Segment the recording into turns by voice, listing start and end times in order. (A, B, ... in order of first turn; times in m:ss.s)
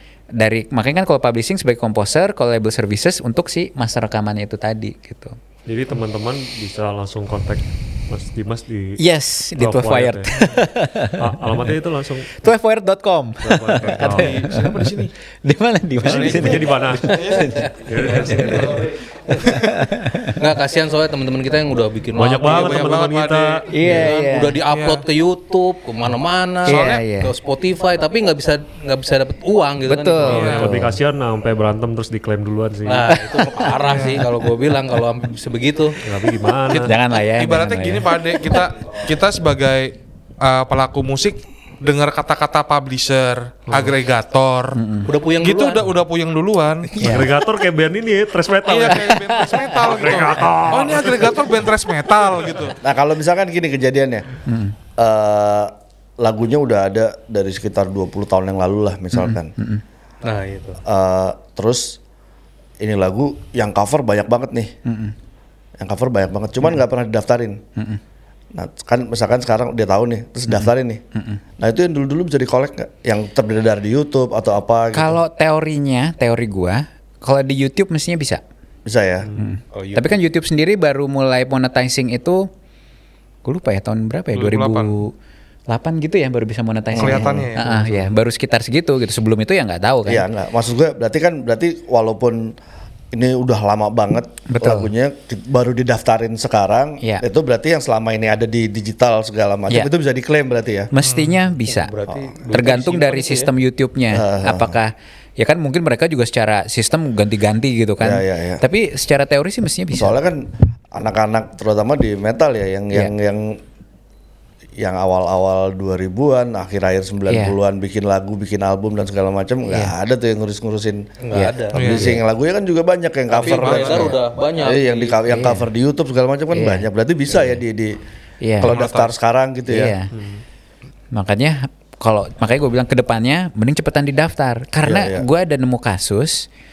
0:00.4-0:05.4 A
0:05.6-0:09.0 B
0:09.0-0:11.4 A
0:09.6-0:10.3 B
0:11.2-0:12.4 B
0:12.4-0:20.4 A
0:13.4-0:14.6 B
0:13.8-0:15.1 C
0:16.0-0:18.9 B
0:16.1-0:19.8 C
0:20.2-0:23.0 D
0:22.1-0:24.1 B
0:22.4-0:23.7 C
0:23.7-0:24.6 A
0:23.8-0:30.6 D
0:24.6-0:25.0 C
0:26.6-0:27.0 C
0:26.6-0:27.3 A
0:29.9-0:31.0 A
0:30.2-0:30.8 C
0:30.3-0:33.1 B
0:32.8-0:36.0 D
0:33.1-0:34.7 A
0:33.8-0:34.3 C
0:36.0-0:36.9 B
0:36.7-0:44.8 C
0:36.7-0:38.6 A
0:44.7-0:45.1 A
0:45.0-0:45.9 D
0:45.4-0:47.0 C
0:47.0-0:47.3 A
0:47.0-0:51.5 B
0:48.6-0:52.8 C
0:48.9-0:50.9 A
0:52.8-0:54.3 E
0:54.4-0:54.7 A
0:55.0-0:59.5 E
0:59.1-0:59.8 A
1:00.2-1:00.8 D
1:00.8-1:02.0 E
1:02.8-1:04.7 E
1:04.8-1:05.1 A
1:05.8-1:07.6 E
1:08.5-1:11.0 E
1:10.5-1:11.4 A
1:11.6-1:15.2 E
1:14.9-1:18.4 A
1:18.8-1:19.3 E
1:19.4-1:22.5 A
1:19.7-1:20.2 D
1:23.4-1:25.1 A
1:24.3-1:25.0 C
1:25.7-1:30.2 A
1:27.0-1:27.5 E
1:27.0-1:28.1 C
1:30.0-1:32.5 E
1:33.1-1:40.9 E
1:34.5-1:34.9 A
1:40.9-1:41.9 A
1:41.0-1:41.4 C
1:41.7-1:43.5 D
1:42.5-1:50.2 A
1:44.1-1:44.8 E
1:48.0-1:48.6 E
1:50.0-1:53.6 E
1:54.8-2:01.1 E
1:57.3-1:57.6 A
2:01.2-2:02.0 D
2:01.3-2:02.2 A
2:01.7-2:08.0 E
2:01.7-2:02.1 C
2:03.3-2:05.2 D
2:03.4-2:04.1 C
2:05.3-2:05.7 A
2:06.5-2:07.6 A
2:08.4-2:08.7 A
2:08.6-2:09.9 E
2:08.7-2:09.1 C
2:09.7-2:10.1 A
2:10.1-2:10.4 B
2:11.1-2:16.5 A
2:14.8-2:15.3 E